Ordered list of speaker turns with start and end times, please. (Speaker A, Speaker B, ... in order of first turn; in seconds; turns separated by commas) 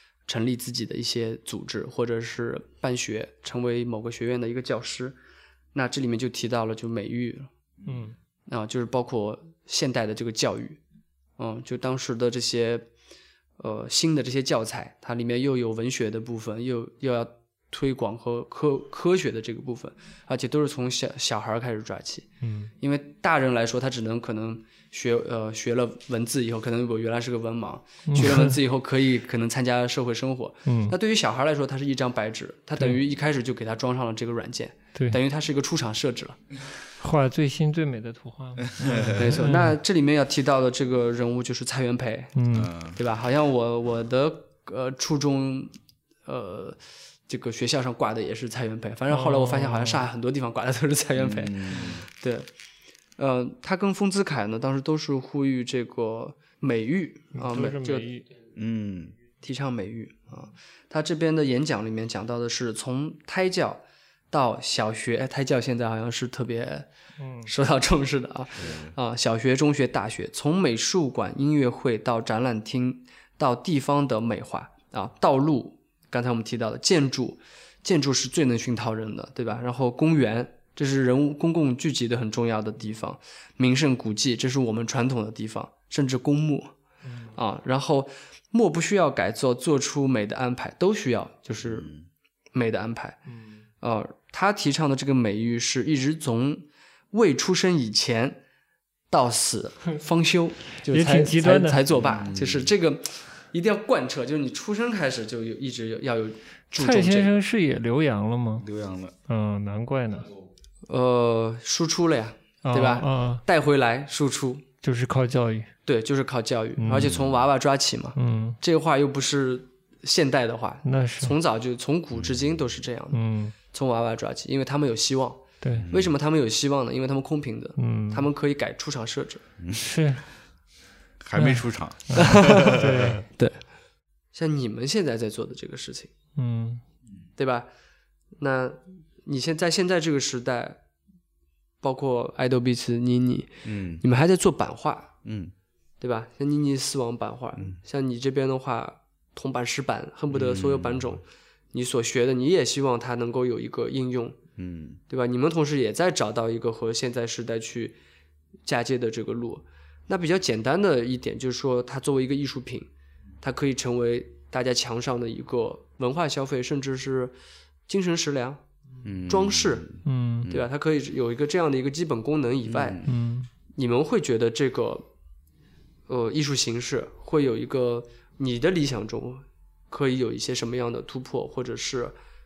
Speaker A: 0.3-5.2, Speaker A: 5.7-7.5, Speaker B: 7.8-8.2, Speaker A: 8.5-10.8, Speaker A: 11.4-12.9, Speaker A: 13.6-36.4, Speaker B: 22.4-22.7, Speaker B: 28.1-28.6, Speaker B: 30.6-30.9, Speaker B: 37.0-39.8, Speaker C: 38.7-39.2, Speaker A: 39.1-42.3, Speaker B: 42.4-42.7, Speaker C: 42.5-43.0, Speaker A: 42.9-45.7, Speaker A: 46.2-52.5, Speaker B: 49.1-50.1, Speaker C: 51.2-52.0, Speaker A: 53.2-58.1, Speaker B: 57.4-58.3, Speaker C: 58.5-59.1, Speaker A: 59.4-66.9, Speaker B: 67.2-67.5, Speaker A: 67.4-86.7, Speaker C: 68.6-68.9, Speaker B: 87.0-87.3, Speaker A: 87.3-91.9, Speaker C: 91.6-92.0, Speaker A: 92.5-93.2, Speaker A: 93.8-98.4, Speaker A: 99.1-107.3, Speaker B: 100.9-101.8, Speaker C: 101.9-102.7, Speaker B: 106.8-108.7, Speaker C: 108.6-109.1, Speaker B: 109.3-110.3, Speaker A: 110.9-114.6, Speaker B: 112.6-113.4, Speaker B: 114.8-115.7, Speaker A: 115.8-123.2, Speaker B: 116.8-117.1, Speaker C: 116.9-117.4, Speaker B: 118.2-118.6, Speaker B: 120.8-121.3, Speaker C: 122.1-122.6, Speaker B: 123.1-123.5, Speaker A: 123.7-129.4, Speaker B: 125.6-125.9, Speaker C: 125.7-126.1, Speaker B: 127.8-128.3, Speaker C: 129.6-129.9, Speaker B: 129.8-130.2, Speaker C: 131.2-133.2, Speaker B: 131.3-133.2, Speaker A: 132.2-133.6, Speaker A: 134.3-136.1, Speaker B: 136.3-136.8, Speaker A: 137.4-137.7, Speaker A: 138.4-140.8, Speaker A: 141.8-145.1, Speaker C: 143.6-144.0, Speaker C: 145.2-145.5, Speaker A: 146.0-154.4, Speaker C: 150.3-151.2, Speaker C: 154.6-155.0, Speaker A: 155.1-158.0, Speaker A: 158.7-162.9, Speaker A: 163.4-167.3, Speaker A: 167.9-168.6, Speaker C: 169.0-170.7, Speaker A: 169.2-169.9, Speaker B: 170.0-170.5, Speaker A: 170.4-173.0, Speaker C: 172.6-173.1, Speaker B: 173.0-173.5, Speaker A: 173.7-175.1, Speaker A: 176.1-182.1